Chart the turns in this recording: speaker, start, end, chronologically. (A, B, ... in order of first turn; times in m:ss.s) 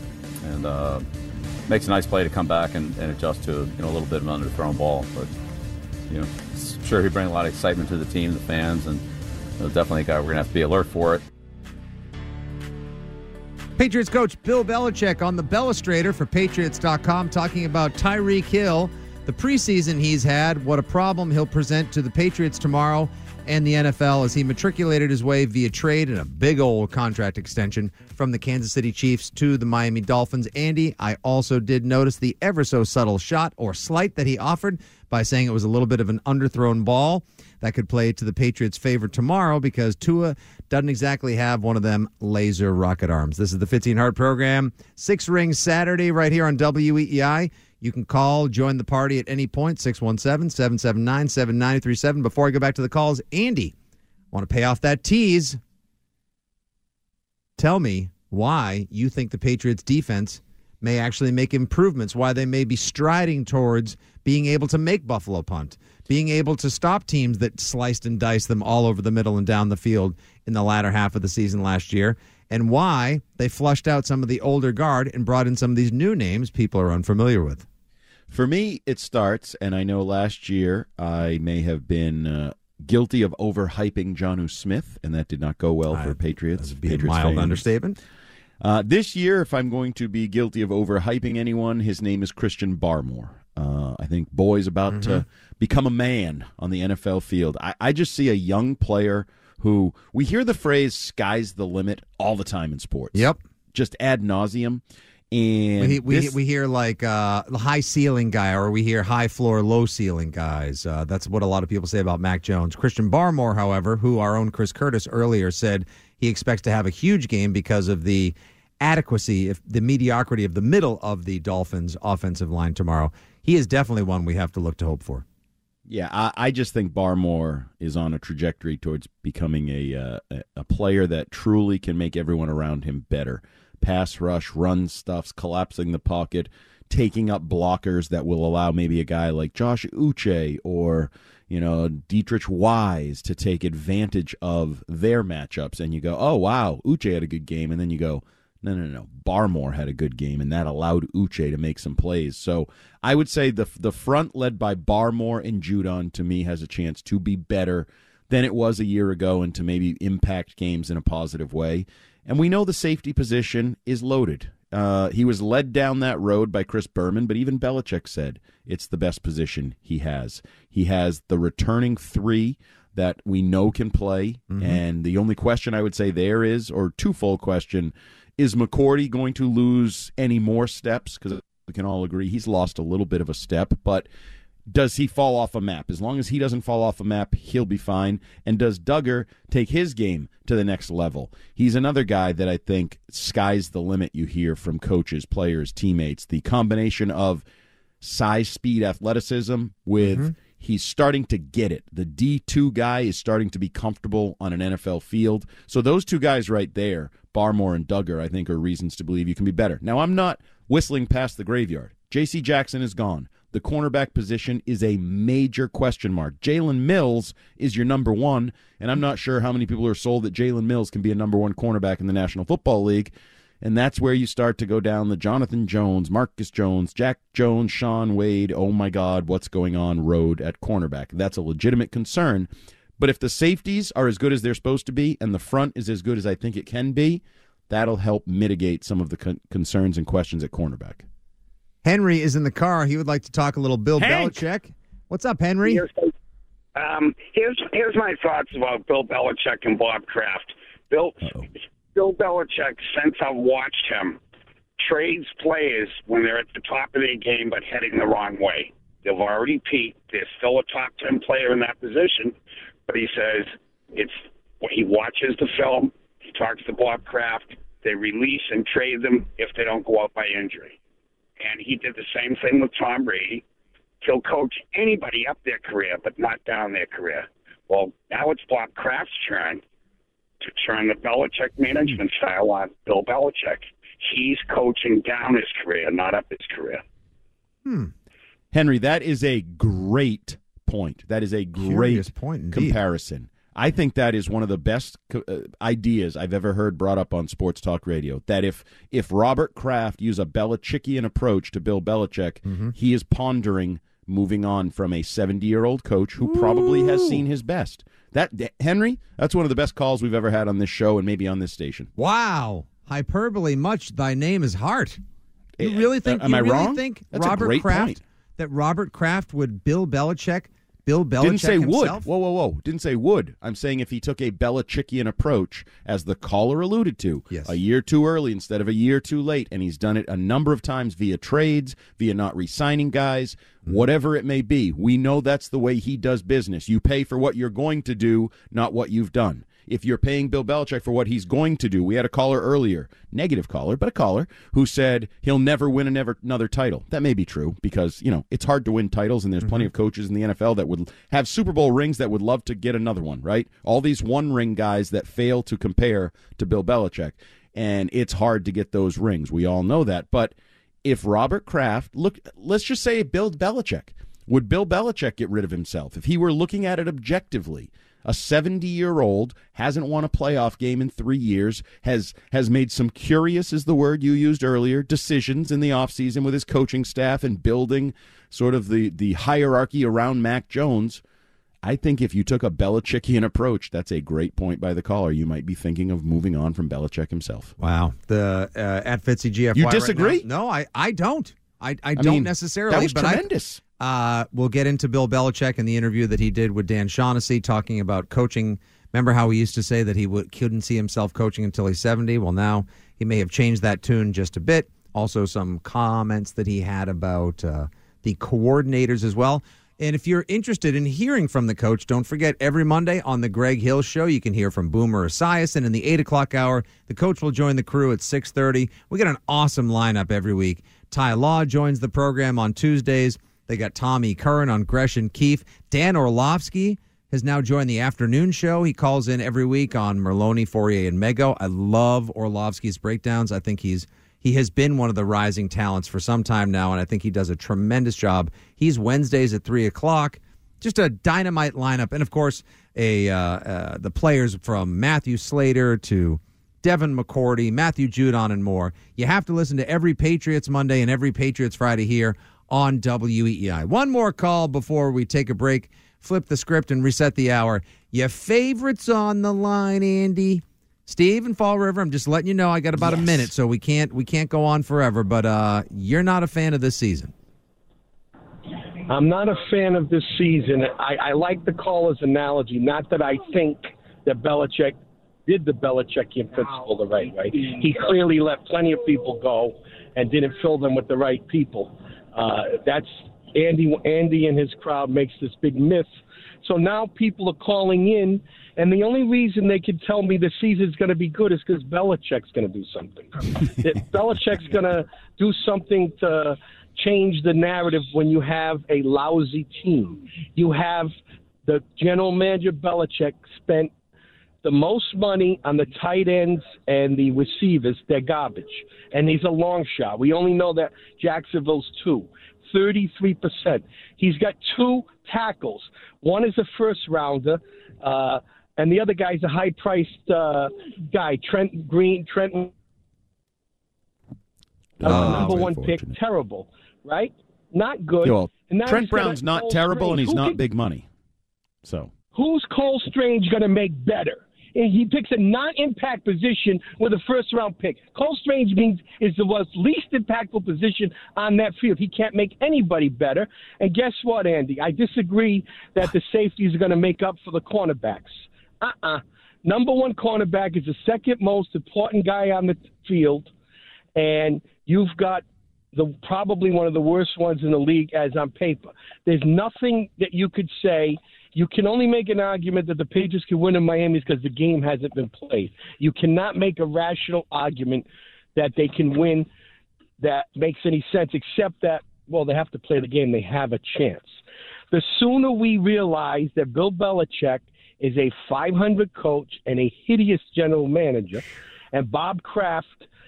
0:00.4-0:01.0 A
0:01.7-0:05.3 A
0:06.1-0:09.0 A
0:09.6-0:11.2 A
0:13.8-0:53.7 B
0:54.3-0:55.6 B
0:57.6-1:17.7 B
1:18.3-1:27.6 C
1:25.9-1:28.0 B
1:28.6-1:46.4 C
1:34.9-1:35.2 B
1:43.1-1:43.4 B
1:45.8-2:05.2 B
2:05.9-3:04.1 C
2:54.5-2:54.8 B
3:04.7-3:17.4 C
3:18.0-4:01.0 C
3:20.0-3:20.3 B
4:01.8-4:05.9 B
4:04.0-4:04.4 C
4:05.7-4:06.1 D
4:06.8-4:14.2 D
4:11.2-4:11.5 C
4:14.8-4:22.4 D
4:22.9-4:30.8 D
4:31.4-4:33.4 D
4:34.0-4:39.6 D
4:40.4-4:46.8 D
4:47.6-4:47.9 B
4:48.5-5:11.9 C
4:51.6-4:52.8 B
5:02.4-5:02.7 B
5:06.2-5:07.2 B
5:12.0-5:15.0 B
5:15.6-5:18.0 C
5:15.6-5:22.1 B
5:21.2-6:21.0 C
5:27.3-5:27.6 B
5:49.4-5:49.7 B
6:21.6-6:27.5 C
6:27.6-6:33.2 B
6:29.6-6:30.2 C
6:32.0-6:33.6 C
6:33.8-7:47.1 B
7:48.9-8:05.9 E
8:06.4-8:20.9 E
8:21.4-8:23.7 E
8:24.4-8:42.5 E
8:44.8-8:46.0 C
8:44.8-8:50.4 E
8:44.8-8:45.5 B
8:48.0-8:50.9 C
8:51.6-8:51.9 C
8:52.1-9:13.3 E
9:14.0-9:27.8 E
9:28.4-9:29.3 E
9:30.0-9:34.2 E
9:34.7-9:42.8 E